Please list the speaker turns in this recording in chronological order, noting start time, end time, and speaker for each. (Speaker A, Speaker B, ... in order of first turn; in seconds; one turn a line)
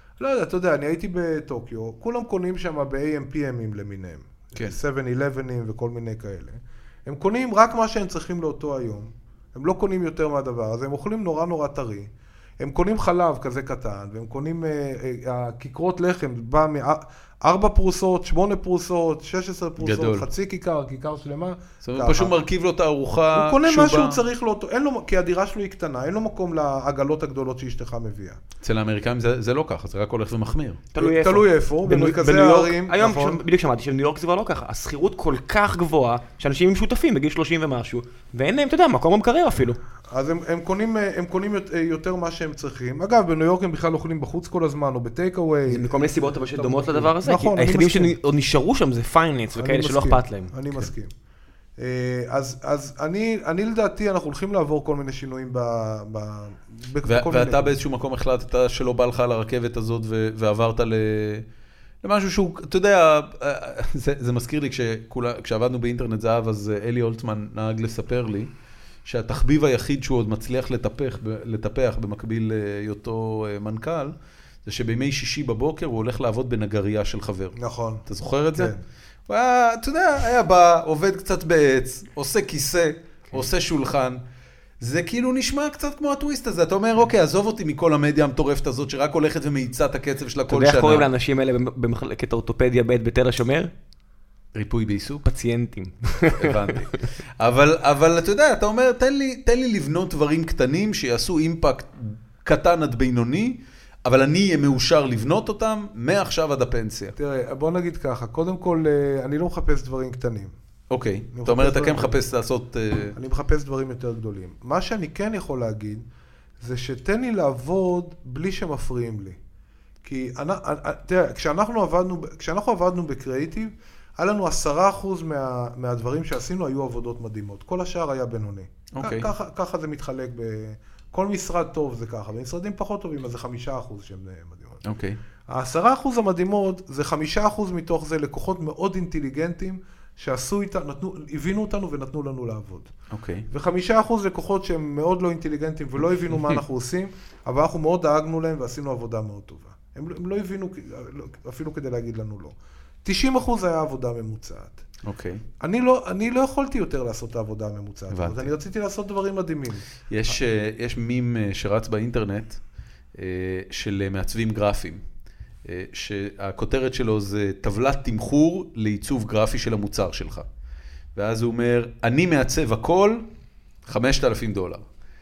Speaker A: 0.2-22.3
Speaker B: 19.8-20.3
Speaker B: 21.8-24.2
Speaker A: 23.3-28.4
Speaker B: 28.6-30.8
Speaker C: 30.9-39.8
Speaker A: 31.0-33.4
Speaker A: 40.1-48.1
Speaker C: 45.7-50.5
Speaker A: 49.5-51.1
Speaker A: 51.8-57.7
Speaker B: 57.0-61.5
Speaker B: 62.0-68.5
Speaker B: 69.0-74.1
Speaker B: 74.6-77.5
Speaker A: 77.5-78.8
Speaker B: 78.0-78.7
Speaker B: 79.3-84.2
Speaker B: 84.8-91.1
Speaker C: 90.5-93.7
Speaker B: 94.5-95.2
Speaker C: 95.2-96.9
Speaker B: 96.4-107.1
Speaker A: 107.2-110.5
Speaker B: 110.9-113.1
Speaker A: 111.3-112.2
Speaker A: 113.1-116.0
Speaker A: 116.6-119.4
Speaker A: 120.0-134.8
Speaker B: 128.9-129.3
Speaker B: 134.8-135.2
Speaker A: 135.5-142.9
Speaker B: 143.1-143.4
Speaker A: 143.5-152.5
Speaker A: 153.0-154.8
Speaker B: 155.0-155.4
Speaker A: 155.6-159.8
Speaker B: 158.1-158.5
Speaker B: 160.1-162.6
Speaker B: 163.1-165.0
Speaker B: 165.6-170.5
Speaker B: 171.1-173.2
Speaker B: 173.8-174.8